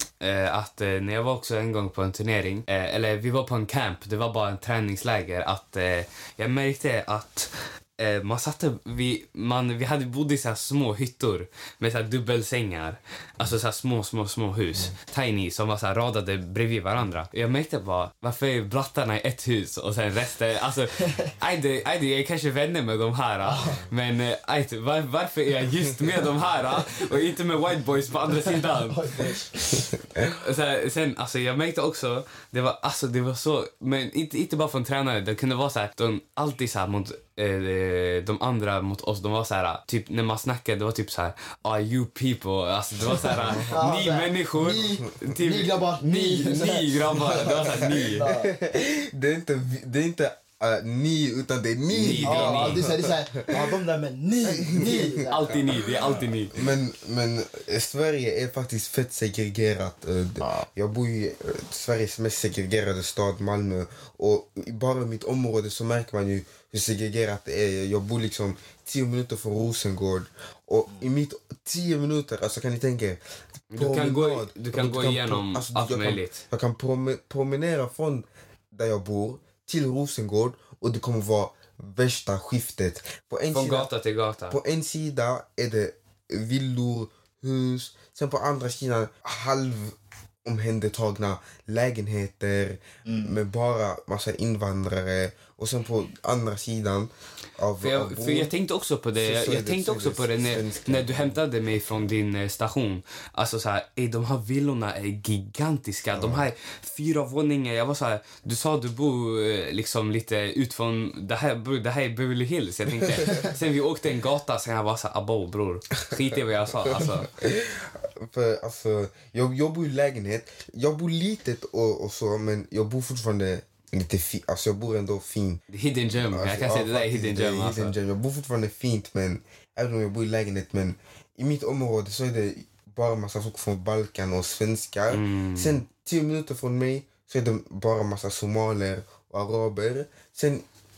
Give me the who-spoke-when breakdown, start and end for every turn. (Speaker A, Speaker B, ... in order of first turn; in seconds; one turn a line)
Speaker A: 0.2-29.3
Speaker B: 21.0-21.3
Speaker B: 23.4-23.8
Speaker B: 28.3-29.9
Speaker A: 30.2-48.3
Speaker C: 43.3-43.8
Speaker B: 43.7-48.5
Speaker C: 47.3-53.8
Speaker A: 51.9-52.8
Speaker B: 52.2-56.3
Speaker C: 54.4-55.9
Speaker A: 55.3-56.5
Speaker C: 56.5-73.2
Speaker B: 60.4-60.7
Speaker A: 73.7-76.4
Speaker C: 73.7-83.9
Speaker A: 83.5-84.6
Speaker C: 84.5-98.5
Speaker B: 93.1-93.3
Speaker A: 97.8-117.3
Speaker C: 99.2-101.4
Speaker C: 106.2-106.5
Speaker C: 116.9-125.6
Speaker A: 125.7-127.9
Speaker C: 126.3-140.6
Speaker A: 135.1-135.8